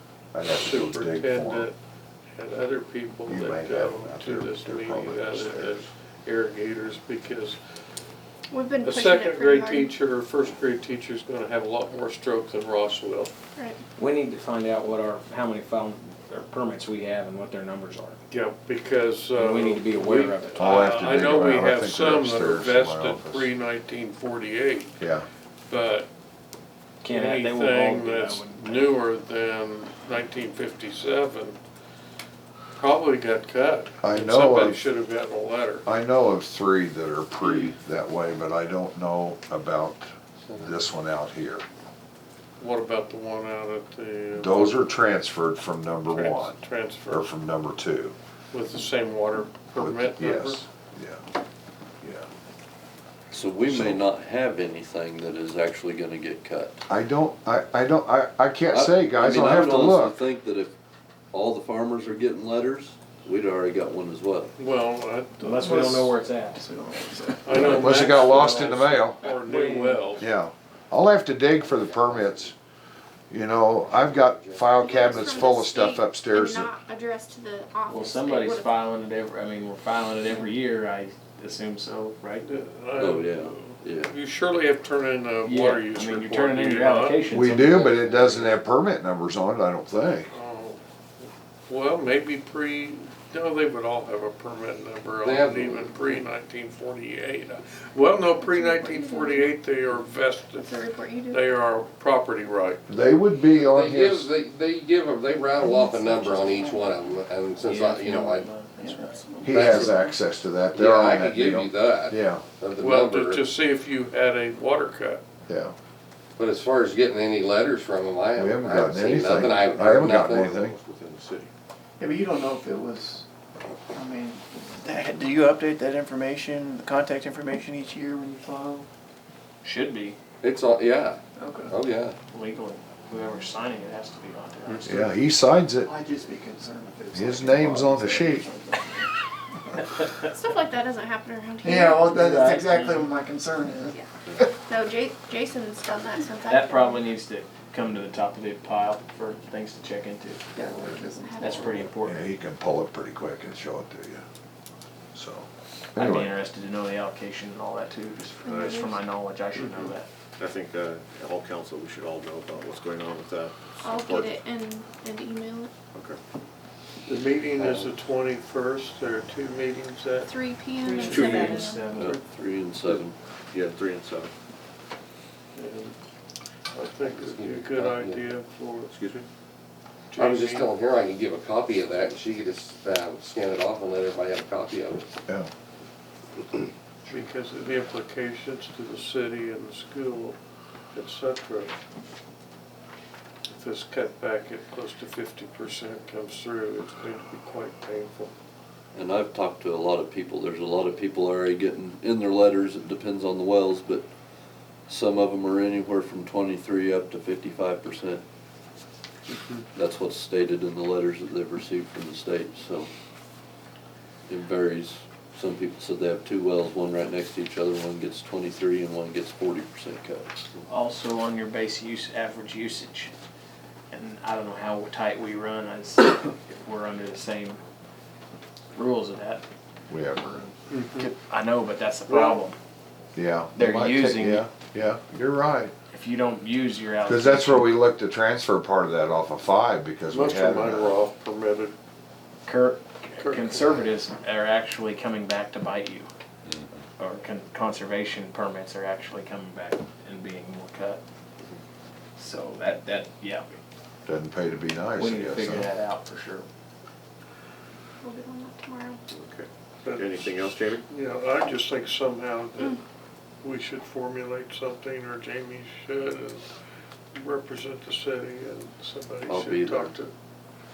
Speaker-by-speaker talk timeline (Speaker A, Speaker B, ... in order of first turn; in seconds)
Speaker A: 0.3-1.7, 3.3-5.9, 20.6-23.5, 25.0-25.3, 34.0-34.8, 35.8-41.6, 44.3-48.1, 49.8-51.2, 52.0-52.3, 53.6-54.0, 56.9-60.2, 67.5-69.2, 70.2-72.5, 73.3-76.7, 87.3-90.3, 102.9-104.3, 109.4-112.4, 115.5-115.7, 118.3-120.8, 134.8-135.9, 137.1-138.5, 152.0-154.2, 155.1-156.3, 229.9-230.5, 233.1-235.7, 237.0-240.9, 254.1-255.7
Speaker B: 0.5-1.8, 2.4-7.6, 8.8-13.3, 18.3-25.0, 25.7-26.1, 27.0-31.6, 32.8-35.8, 37.4-37.7, 42.6-45.0, 46.1-47.3, 48.5-50.6, 64.6-65.5, 67.4-70.3, 82.4-87.3, 90.3-90.8, 91.7-102.8, 112.8-115.2, 159.5-159.9, 167.0-170.5, 175.5-175.9, 176.7-178.9, 180.1-180.7, 187.1-190.4, 190.9-191.8, 193.5-198.3, 230.7-231.1, 232.1-232.4, 240.1-241.7, 243.2-243.9, 259.8-260.3, 260.9-262.8, 263.4-266.5, 267.1-270.1
Speaker C: 8.5-9.8, 74.9-78.7, 100.6-101.3, 140.3-142.2, 144.7-147.0, 150.7-151.8, 158.5-158.9, 163.8-165.7, 170.3-171.8, 258.0-259.0
Speaker D: 13.9-18.2, 19.4-20.9, 27.0-29.0, 65.4-66.7, 69.2-70.2, 77.9-82.5, 85.4-87.9, 107.6-109.8, 129.6-130.2, 132.3-134.9, 142.1-143.1, 146.5-150.4, 151.4-152.3, 155.9-160.1, 170.8-172.2, 220.7-223.1, 223.9-227.6, 228.7-229.4, 230.1-230.4, 230.9-232.6, 233.5-234.5, 235.9-237.8, 242.4-246.1, 247.0-251.0, 252.2-253.6, 255.0-256.4
Speaker E: 40.5-40.8, 71.6-72.5, 73.8-75.7, 95.2-96.2, 103.5-108.5, 109.5-110.1, 110.7-113.4, 116.4-120.7, 130.4-132.1, 167.6-167.9, 177.0-178.3, 180.1-185.1
Speaker F: 53.3-56.8, 58.7-60.7, 61.3-64.5, 83.0-84.1, 171.9-173.1, 198.9-204.1, 204.8-208.2, 209.7-212.9, 214.3-220.5, 269.2-269.9
Speaker G: 65.5-67.9, 98.6-99.2, 108.8-109.2, 122.0-123.2, 123.9-128.9, 131.4-131.7, 135.8-138.8, 141.6-144.5, 150.5-151.9
Speaker H: 119.5-121.5, 158.4-159.0, 160.4-164.4, 165.9-166.2, 171.0-171.7, 172.8-174.3, 178.9-179.2, 259.1-260.8